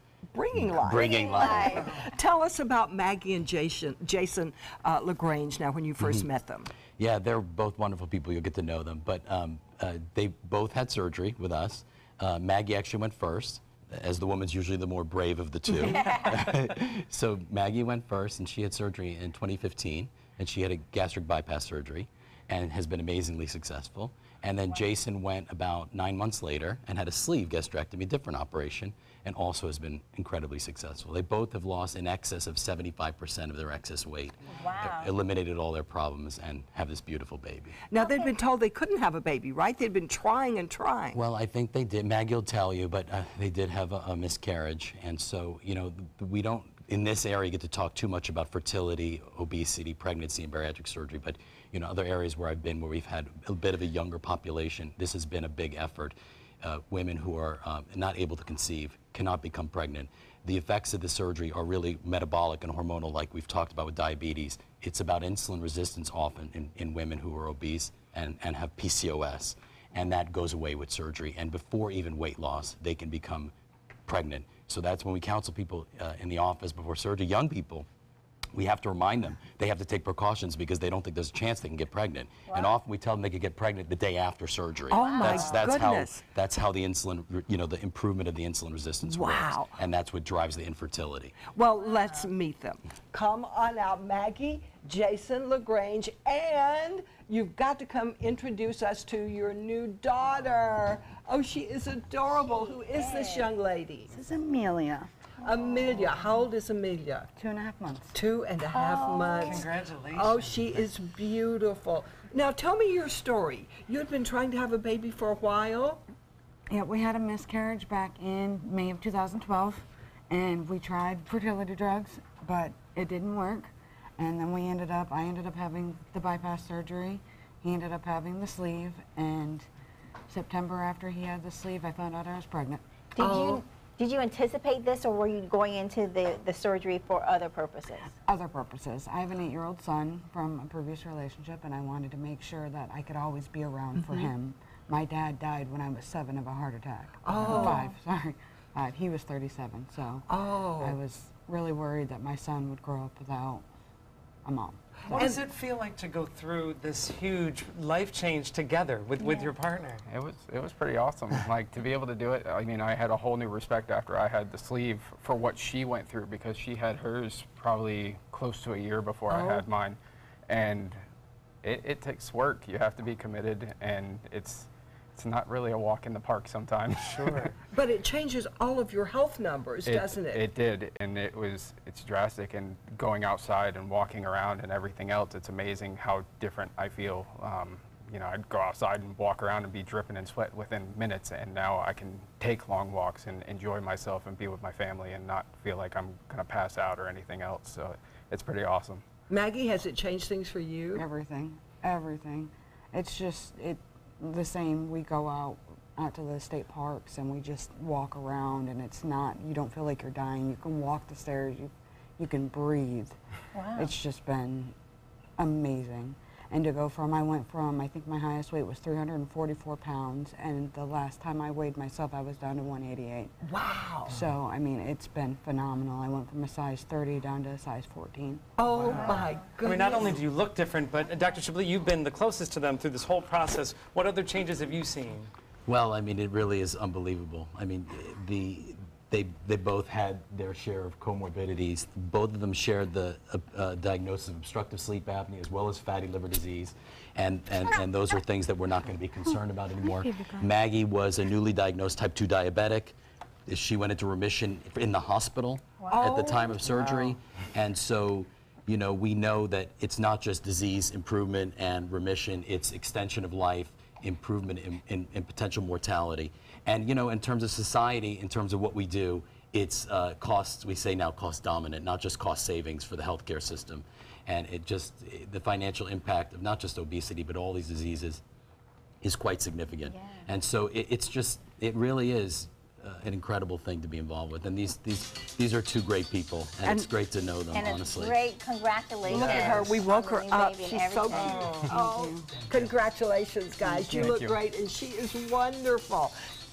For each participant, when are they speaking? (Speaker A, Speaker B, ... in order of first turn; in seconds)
Speaker A: 0.3-6.7, 37.9-41.2, 84.9-86.2, 89.0-89.8, 91.5-104.2, 105.4-107.3, 108.1-116.0, 133.2-133.6, 147.2-147.9, 150.3-151.0, 155.1-155.4, 169.3-169.7, 177.6-180.4, 199.3-201.1, 223.4-224.2, 228.6-230.2, 255.9-256.6, 289.1-296.1
Speaker B: 0.6-1.9, 6.0-6.3, 7.0-37.8, 41.1-73.5, 74.1-77.9, 78.5-91.4, 235.7-253.0, 253.5-278.2, 279.0-288.2
Speaker C: 1.0-1.9, 34.5-35.1, 38.0-38.3, 82.5-82.8, 85.0-85.6, 102.6-103.5, 108.7-109.3, 133.2-138.2, 159.2-159.5, 213.5-213.9, 279.9-280.2, 287.5-291.5
Speaker D: 104.1-105.1, 107.4-108.2, 116.7-129.7, 130.3-132.8, 138.2-153.7, 154.4-155.3, 200.9-213.2, 213.7-214.7, 215.4-223.3, 224.1-228.4, 291.8-292.2, 293.7-294.1
Speaker E: 109.2-110.6, 155.1-160.0, 228.8-235.3, 289.2-289.6, 291.1-291.7
Speaker F: 160.1-171.0, 171.6-177.6, 179.8-199.1, 293.9-294.4